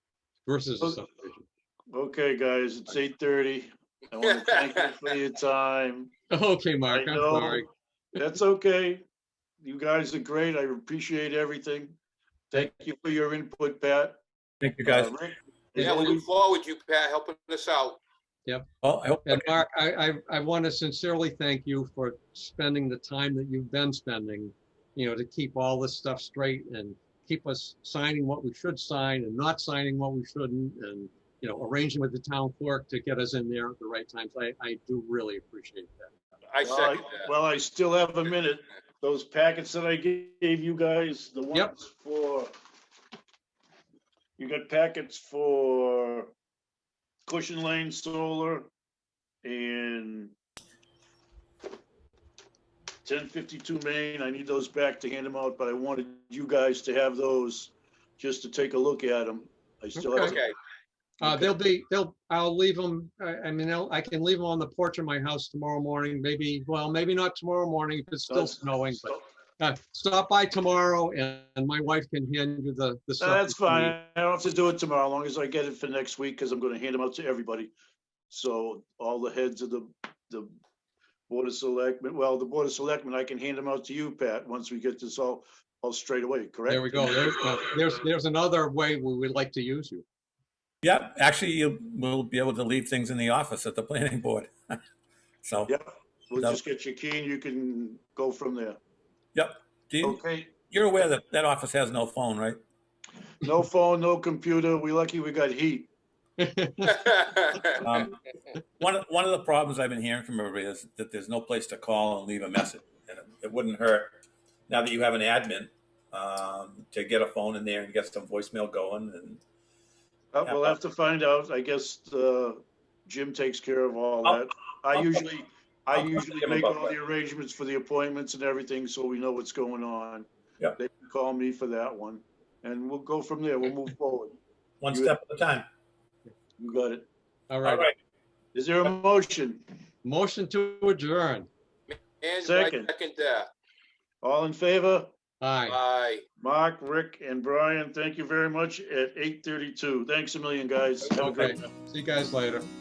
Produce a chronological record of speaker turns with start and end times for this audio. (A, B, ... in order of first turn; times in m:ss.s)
0:00.4-0:01.4 A
0:01.9-0:06.1 B
0:04.4-0:04.9 C
0:06.3-0:07.7 A
0:06.9-0:07.6 B
0:08.2-0:09.0 B
0:09.6-0:12.0 B
0:12.5-0:14.2 B
0:14.6-0:15.1 D
0:14.9-0:16.3 B
0:15.8-0:18.0 C
0:18.8-0:19.6 D
0:19.2-0:36.1 A
0:36.5-0:37.3 C
0:36.6-0:42.5 B
0:44.4-0:46.3 B
0:47.3-0:48.7 B
0:49.4-0:50.3 B
0:53.0-1:00.4 B
1:00.0-1:00.4 A
1:00.2-1:00.5 C
1:01.2-1:01.6 B
1:01.2-1:14.0 A
1:08.3-1:09.2 B
1:13.2-1:17.7 B
1:18.3-1:20.5 B
1:21.3-1:27.3 B
1:26.7-1:30.0 A
1:30.8-1:34.8 D
1:35.4-1:35.7 D
1:35.7-1:38.8 B
1:39.3-1:42.6 D
1:40.0-1:40.5 B
1:43.4-1:45.9 B
1:46.4-1:47.0 A
1:46.9-1:47.8 C
1:47.8-1:48.2 D
1:48.8-1:54.1 D
1:54.7-1:59.4 D
2:00.3-2:14.4 B
2:00.4-2:00.8 D
2:04.2-2:05.2 D
2:05.9-2:06.9 D
2:14.8-2:15.7 D
2:14.9-2:15.1 B
2:16.6-2:17.1 B
2:17.5-2:17.9 A
2:17.6-2:17.9 D
2:18.5-2:19.6 B
2:20.0-2:21.5 A
2:21.9-2:23.5 C
2:22.4-2:22.9 B
2:24.2-2:25.1 B
2:25.4-2:25.8 A
2:25.7-2:26.2 C
2:26.4-2:31.7 B
2:31.1-2:32.7 A